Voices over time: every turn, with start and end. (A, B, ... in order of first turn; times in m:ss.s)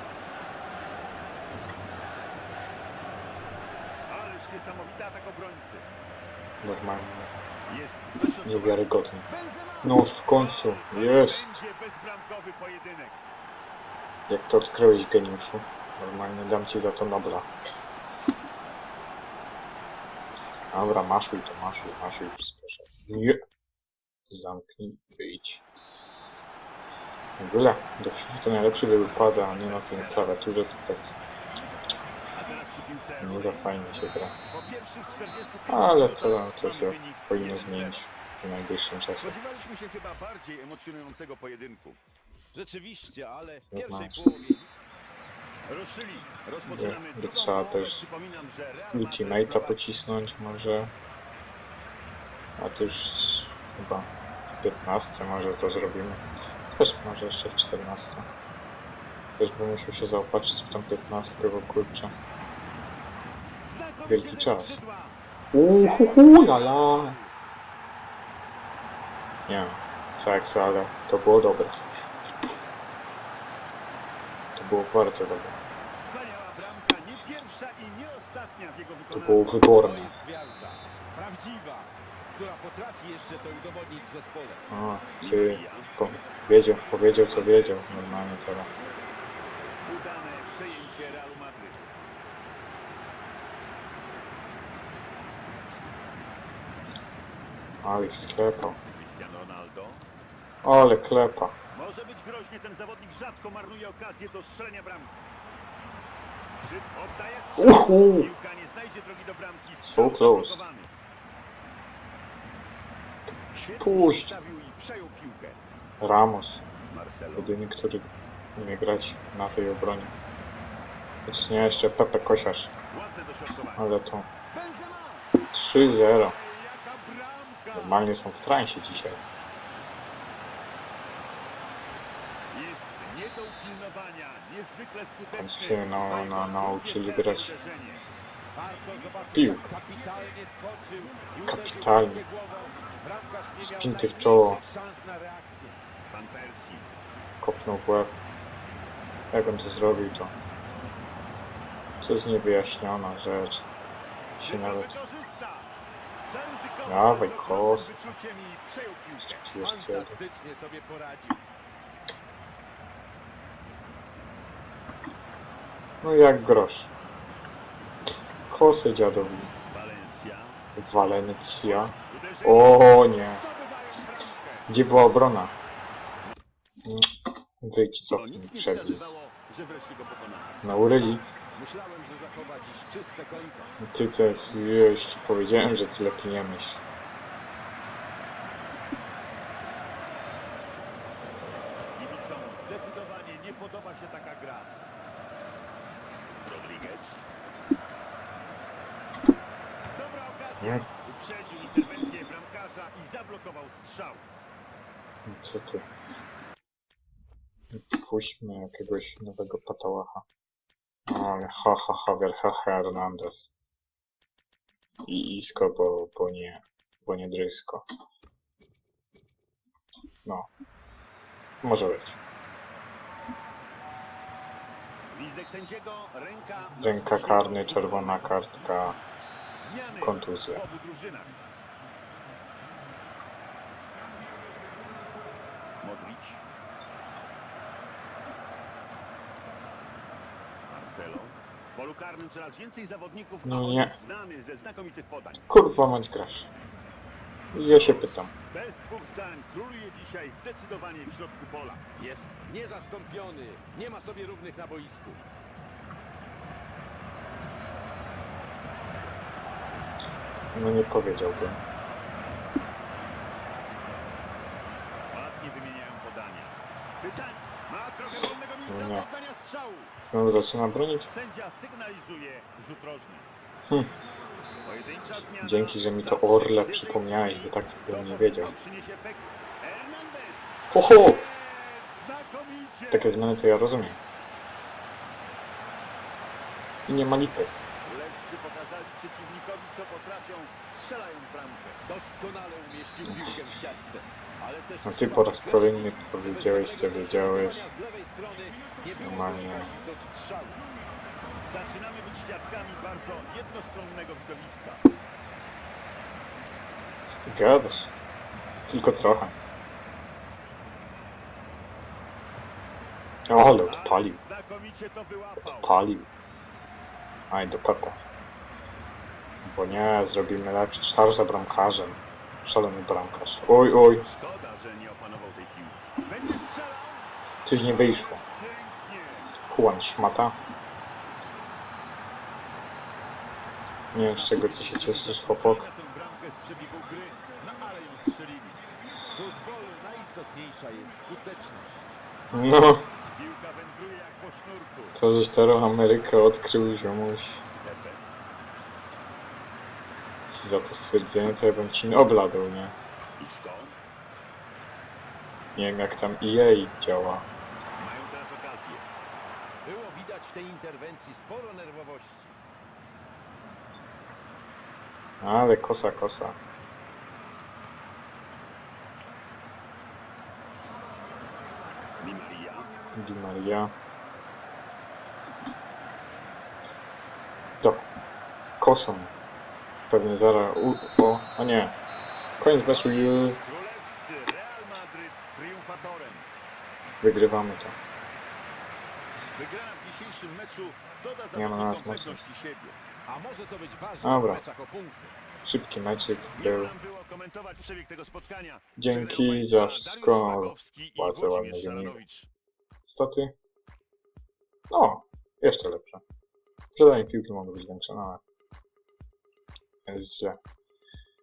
0:04.1-0:05.8 A
0:06.6-0:07.3 B
0:07.7-0:13.2 A
0:08.4-0:09.3 B
0:09.8-0:11.6 B
0:14.3-0:17.5 B
0:20.7-0:23.4 B
0:24.3-0:25.6 B
0:27.4-0:31.1 B
0:29.4-0:30.4 A
0:32.4-0:33.8 A
0:33.2-0:34.4 B
0:34.5-0:38.0 A
0:35.7-0:39.4 B
0:39.2-0:42.0 A
0:42.5-0:44.6 C
0:43.7-0:44.4 B
0:45.8-0:49.8 A
0:46.6-0:48.0 B
0:48.9-0:50.9 B
0:52.6-0:54.1 B
0:54.6-0:56.2 B
0:56.8-0:58.3 B
0:59.4-1:02.1 B
1:03.7-1:05.1 A
1:04.1-1:04.8 B
1:05.5-1:07.2 B
1:05.8-1:07.3 A
1:09.5-1:11.9 B
1:14.6-1:15.6 B
1:15.9-1:19.5 A
1:19.1-1:20.1 B
1:19.8-1:24.6 C
1:24.7-1:28.7 B
1:25.2-1:25.9 A
1:27.3-1:28.0 A
1:29.9-1:31.8 A
1:37.8-1:38.8 B
1:39.0-1:40.0 A
1:40.6-1:41.6 B
1:41.8-1:45.1 A
1:46.7-1:50.9 A
1:47.6-1:48.3 B
1:49.8-1:50.6 B
1:53.5-1:55.6 A
1:53.8-1:54.4 B
1:56.0-1:56.6 B
1:57.0-1:57.5 A
1:57.4-2:00.1 B
2:01.3-2:02.7 B
2:03.0-2:03.8 A
2:03.8-2:04.3 B
2:04.6-2:05.2 A
2:05.5-2:06.4 B
2:06.4-2:08.0 A
2:07.7-2:09.2 B
2:12.5-2:18.0 A
2:15.3-2:17.6 B
2:18.6-2:25.8 C
2:19.3-2:19.8 B
2:21.4-2:22.2 B
2:23.6-2:24.6 B
2:26.1-2:26.9 A
2:27.4-2:28.2 B
2:29.3-2:30.4 B
2:32.0-2:33.7 B
2:34.4-2:35.0 B
2:34.4-2:35.7 A
2:36.2-2:39.4 A
2:36.9-2:38.0 B
2:39.3-2:40.2 B
2:39.6-2:41.4 C
2:46.0-2:46.9 B
2:48.5-2:49.5 B
2:49.8-2:50.6 A
2:50.8-2:53.4 B
2:51.8-2:52.7 A
2:53.3-2:54.6 A
2:54.7-2:55.5 B
2:57.6-2:59.0 B
2:58.2-3:00.6 A
3:00.6-3:01.3 B
3:01.6-3:03.7 C
3:03.8-3:06.8 B
3:12.0-3:14.7 A
3:16.5-3:17.2 A
3:20.0-3:24.2 A
3:25.3-3:25.9 B
3:27.7-3:30.2 B
3:31.1-3:33.5 B
3:35.1-3:37.8 B
3:41.6-3:42.2 B
3:45.2-3:48.3 A
3:46.8-3:49.0 B
3:49.7-3:51.4 A
3:50.0-3:50.6 B
3:55.8-3:56.4 A
4:00.7-4:05.4 A
4:03.4-4:04.0 B
4:05.5-4:06.5 B
4:07.5-4:08.3 B
4:07.7-4:11.8 A
4:12.0-4:15.2 C
4:20.5-4:21.6 B
4:25.1-4:29.9 A
4:28.7-4:29.1 B
4:30.0-4:31.1 B
4:31.1-4:33.3 A
4:34.7-4:40.5 A
4:35.4-4:38.5 B
4:40.7-4:41.3 B
4:41.2-4:43.2 A
4:42.9-4:44.0 B
4:46.9-4:47.5 B
4:47.8-4:51.8 A
4:51.9-5:00.6 C
4:54.8-4:57.7 B
4:58.7-4:59.8 A
4:59.0-4:59.8 B
5:01.4-5:04.8 A
5:07.1-5:07.9 B
5:08.7-5:09.4 B
5:13.3-5:14.2 B
5:13.7-5:15.8 A
5:15.4-5:16.1 B
5:17.3-5:18.0 B
5:19.4-5:24.1 B
5:24.1-5:27.1 A
5:27.4-5:28.2 B
5:28.2-5:29.3 A
5:29.5-5:30.4 B
5:33.9-5:35.7 B
5:33.9-5:38.6 A
5:39.1-5:41.8 C
5:42.3-5:42.9 B
5:43.2-5:45.0 A
5:45.0-5:47.4 B
5:47.6-5:48.0 A
5:50.3-5:52.8 B
5:53.2-5:53.8 A
5:55.6-5:57.3 B
5:57.8-5:58.8 A
5:59.6-6:02.3 C
6:05.2-6:06.4 B
6:12.0-6:12.7 A
6:12.9-6:13.7 B
6:17.6-6:17.9 B
6:18.6-6:19.1 B
6:19.9-6:21.8 B
6:22.4-6:23.4 B
6:22.9-6:26.2 A
6:27.0-6:27.8 B
6:29.4-6:32.8 A
6:31.4-6:32.2 B
6:33.1-6:35.1 C
6:34.0-6:34.4 B
6:35.4-6:36.8 B
6:36.4-6:42.2 A
6:38.8-6:42.0 B
6:42.9-6:43.3 B
6:44.7-6:46.0 B
6:46.7-6:48.2 B
6:49.9-6:50.4 B